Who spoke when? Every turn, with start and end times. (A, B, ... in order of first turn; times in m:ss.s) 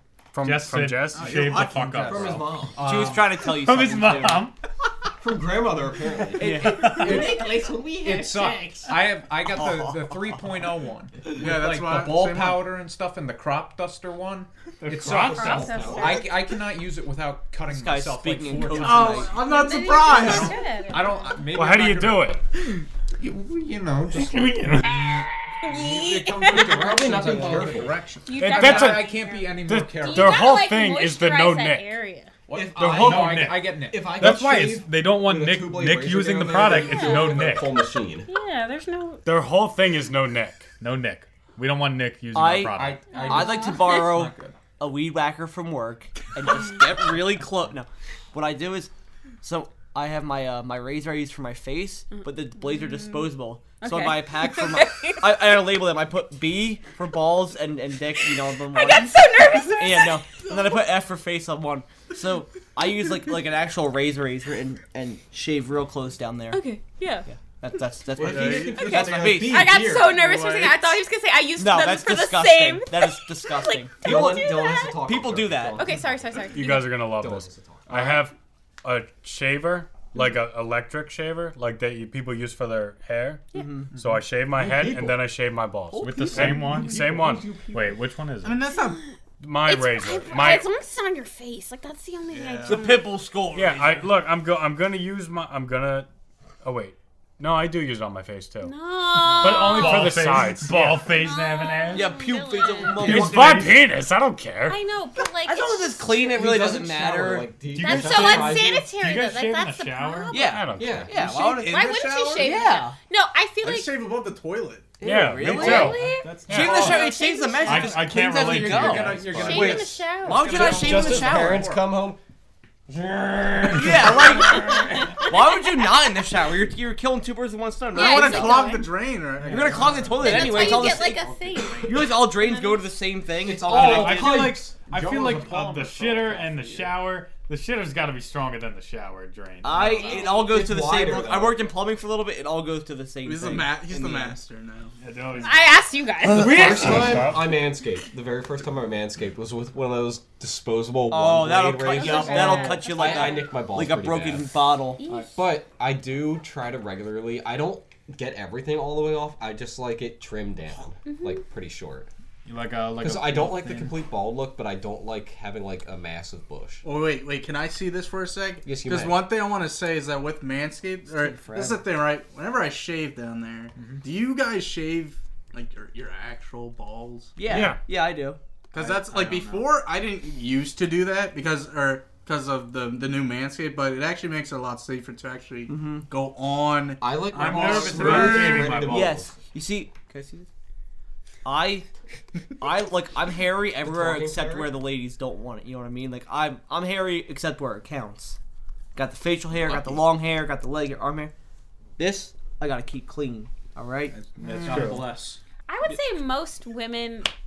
0:00.3-0:01.4 A
0:00.4-0:02.6 B
0:01.1-0:02.4 C
0:02.0-0:02.8 D
0:02.8-0:03.3 E
0:02.8-0:04.5 F
0:03.4-0:04.6 B
0:05.2-0:07.2 D
0:06.4-0:07.1 F
0:06.8-0:19.3 E
0:07.0-0:08.8 G
0:09.5-0:10.4 F
0:11.3-0:12.8 C
0:14.9-0:15.8 B
0:14.9-0:16.3 D
0:15.3-0:16.3 G
0:17.7-0:19.3 F
0:18.7-0:20.6 C
0:19.2-0:21.5 G
0:20.1-0:22.4 E
0:21.5-0:22.4 A
0:23.2-0:30.4 E
0:24.4-0:24.8 B
0:25.6-0:27.0 G
0:26.3-0:28.0 D
0:28.3-0:32.3 G
0:28.4-0:32.0 A
0:32.5-0:34.1 E
0:32.5-0:38.3 D
0:32.8-0:37.7 B
0:36.5-0:39.2 G
0:39.2-0:40.7 A
0:40.8-0:43.1 B
0:42.3-0:48.9 F
0:42.7-0:44.6 E
0:43.1-0:44.2 G
0:46.5-0:46.8 G
0:49.4-0:59.2 F
0:52.1-0:55.4 G
0:58.2-1:00.8 G
0:59.8-1:06.6 F
1:06.5-1:07.3 G
1:07.3-1:09.8 F
1:08.2-1:10.2 D
1:08.2-1:08.9 C
1:08.6-1:15.1 G
1:10.0-1:11.0 C
1:11.6-1:14.5 F
1:14.0-1:18.2 D
1:15.0-1:15.9 F
1:15.8-1:17.0 G
1:16.5-1:27.5 A
1:23.5-1:23.9 G
1:23.6-1:23.9 F
1:24.6-1:25.1 D
1:26.0-1:28.7 B
1:26.1-1:27.8 E
1:26.2-1:26.6 D
1:28.4-1:29.0 C
1:28.7-1:29.1 G
1:29.4-1:30.7 A
1:29.6-1:33.2 G
1:32.3-1:32.8 C
1:32.6-1:34.1 F
1:33.5-1:36.1 A
1:36.6-1:38.7 A
1:38.6-1:40.2 G
1:39.4-1:41.1 A
1:39.4-1:42.2 B
1:41.0-1:43.2 G
1:41.9-1:43.8 F
1:42.9-1:43.8 B
1:43.0-1:44.8 A
1:44.7-1:46.3 G
1:45.4-1:47.5 F
1:46.2-1:48.9 D
1:47.8-1:50.6 G
1:47.8-1:50.7 B
1:50.3-1:53.0 F
1:50.5-1:51.0 A
1:50.8-1:51.3 D
1:51.2-1:52.6 C
1:51.6-1:53.9 G
1:53.6-1:55.0 C
1:55.0-2:01.7 F
1:55.0-1:57.0 B
1:55.5-1:58.2 G
1:57.6-1:59.4 B
1:58.4-2:01.8 E
1:59.2-2:00.8 G
1:59.3-2:02.2 D
2:02.9-2:04.8 D
2:03.7-2:08.8 F
2:04.3-2:05.6 G
2:07.9-2:08.9 G
2:08.0-2:10.3 C
2:09.4-2:10.3 E
2:09.5-2:11.2 F
2:10.2-2:13.0 G
2:11.8-2:14.4 F
2:13.4-2:16.5 D
2:13.7-2:20.2 B
2:14.9-2:16.7 E
2:19.6-2:24.4 F
2:19.7-2:20.7 G
2:20.3-2:21.7 D
2:23.2-2:25.0 C
2:25.0-2:27.6 B
2:25.4-2:27.2 G
2:26.3-2:34.6 D
2:31.1-2:35.0 F
2:31.9-2:33.6 G
2:35.0-2:35.6 G
2:35.3-2:42.1 D
2:41.0-2:41.4 G
2:42.5-2:44.0 B
2:43.0-2:46.8 D
2:46.8-2:57.4 C
2:48.6-2:49.2 D
2:57.4-2:58.4 F
2:57.5-2:57.8 A
2:58.7-3:08.8 C
2:58.8-2:59.6 B
3:05.7-3:06.1 F
3:07.0-3:09.3 D
3:07.3-3:09.1 B
3:08.8-3:10.5 F
3:11.4-3:11.9 F
3:12.6-3:18.4 F
3:13.8-3:14.8 D
3:19.0-3:21.3 F
3:19.6-3:20.0 D
3:22.0-3:24.2 F
3:24.4-3:25.4 E
3:24.4-3:25.1 B
3:25.7-3:27.3 G